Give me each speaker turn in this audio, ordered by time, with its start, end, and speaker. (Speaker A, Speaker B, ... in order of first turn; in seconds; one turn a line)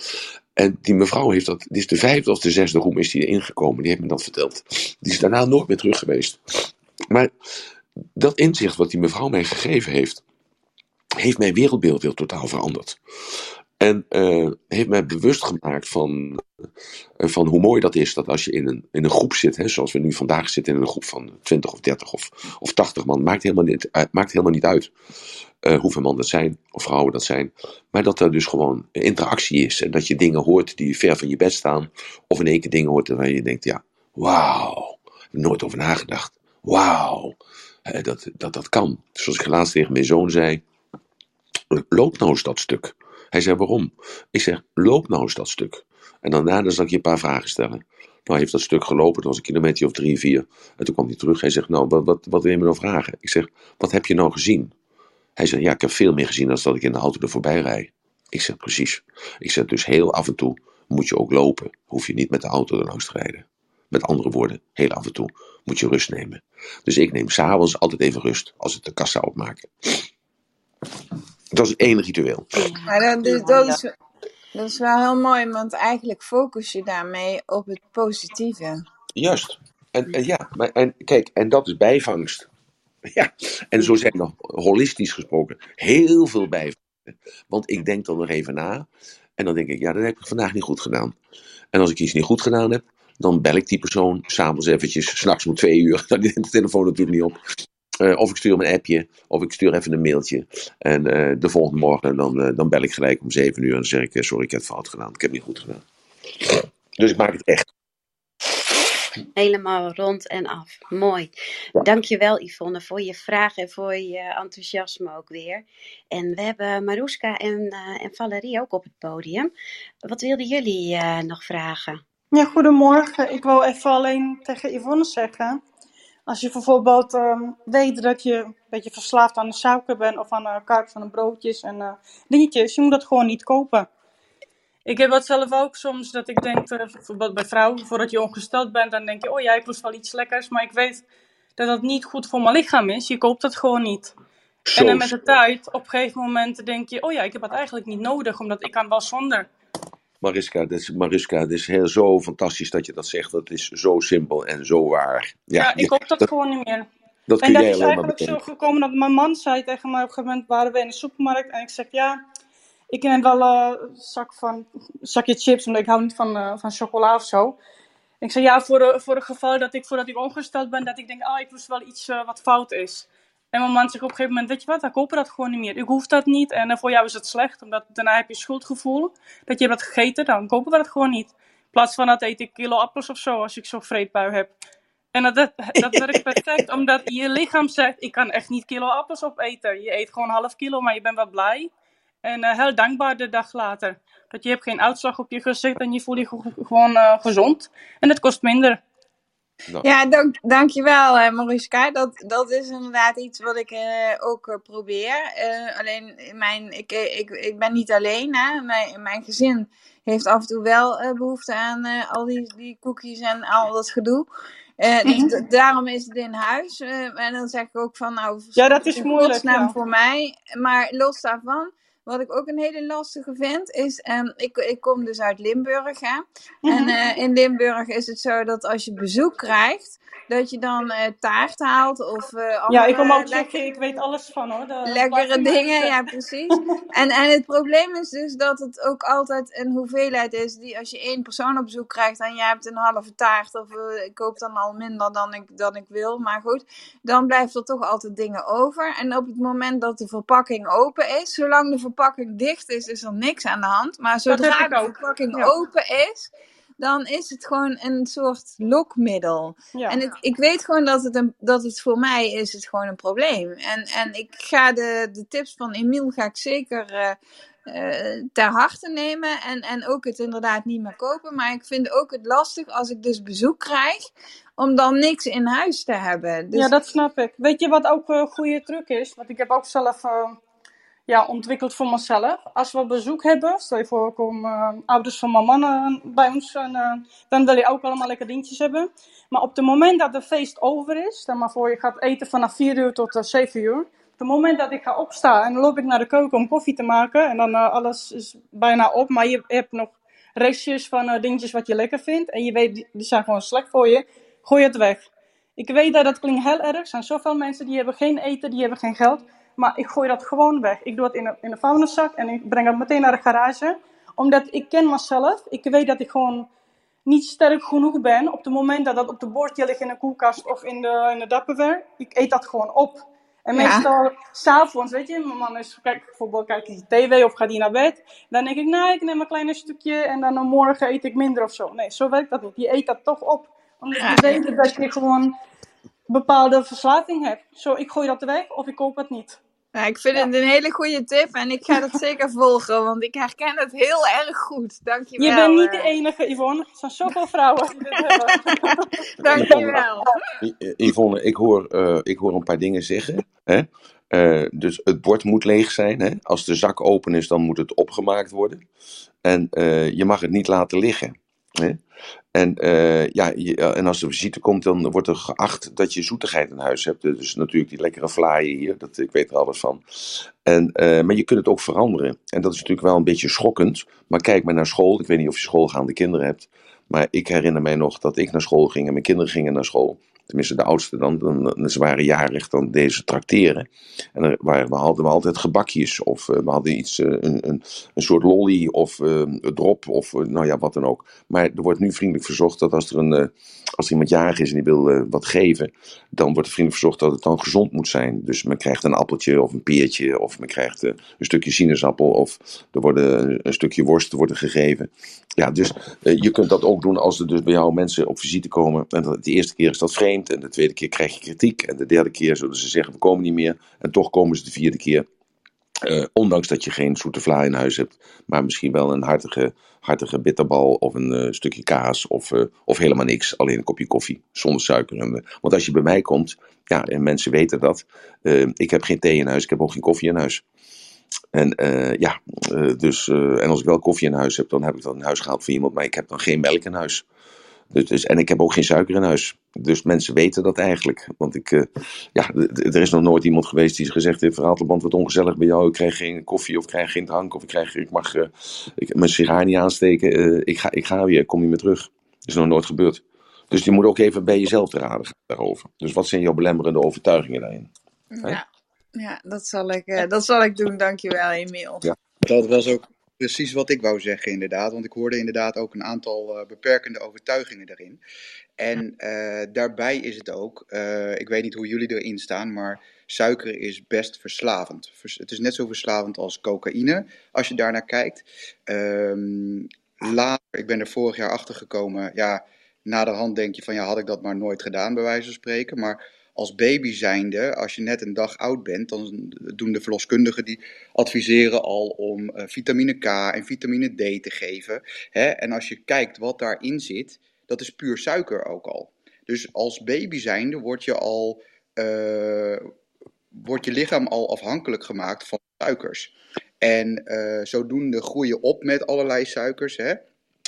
Speaker A: 0.6-7.3
Speaker A: 8.2-10.2
Speaker A: 11.2-13.0
Speaker A: 13.8-16.4
Speaker A: 17.2-24.9
Speaker A: 25.6-40.6
Speaker A: 41.7-54.7
Speaker A: 55.4-70.0
Speaker A: 71.5-72.6
Speaker B: 72.5-73.8
Speaker C: 72.9-73.9
Speaker C: 74.5-78.8
Speaker A: 79.1-82.5
Speaker A: 83.1-88.9
Speaker A: 89.4-91.1
Speaker A: 91.7-97.4
Speaker A: 98.0-105.8
Speaker A: 106.4-107.7
Speaker B: 109.4-119.5
Speaker B: 120.0-122.0
Speaker D: 122.3-125.6
Speaker D: 126.3-133.9
Speaker D: 134.9-141.0
Speaker D: 141.6-144.1
Speaker A: 144.7-145.2
Speaker D: 144.7-149.5
Speaker A: 150.2-156.3
Speaker D: 155.6-156.9
Speaker A: 157.3-158.4
Speaker D: 157.4-162.2
Speaker D: 162.9-167.6
Speaker D: 168.2-184.6
Speaker D: 185.1-191.7
Speaker D: 192.2-198.8
Speaker C: 199.8-214.3
Speaker C: 214.8-233.6
Speaker D: 215.1-215.3
Speaker D: 218.6-219.7
Speaker D: 226.7-226.9
Speaker D: 232.7-235.9
Speaker C: 234.9-276.7
Speaker D: 254.3-255.5
Speaker D: 259.7-260.0
Speaker D: 276.5-280.4
Speaker D: 281.1-316.5
Speaker D: 317.1-335.3
Speaker C: 323.6-323.9
Speaker C: 334.0-334.7
Speaker D: 336.1-339.4
Speaker C: 339.7-345.9
Speaker D: 345.2-349.8
Speaker C: 347.8-350.1
Speaker A: 349.3-349.8
Speaker A: 350.4-358.6
Speaker A: 359.2-361.8
Speaker A: 362.3-415.1
Speaker A: 415.8-430.4
Speaker A: 431.3-437.0
Speaker A: 437.7-457.7
Speaker C: 458.1-461.9
Speaker E: 462.2-468.0
Speaker E: 468.6-502.7
Speaker E: 503.3-510.0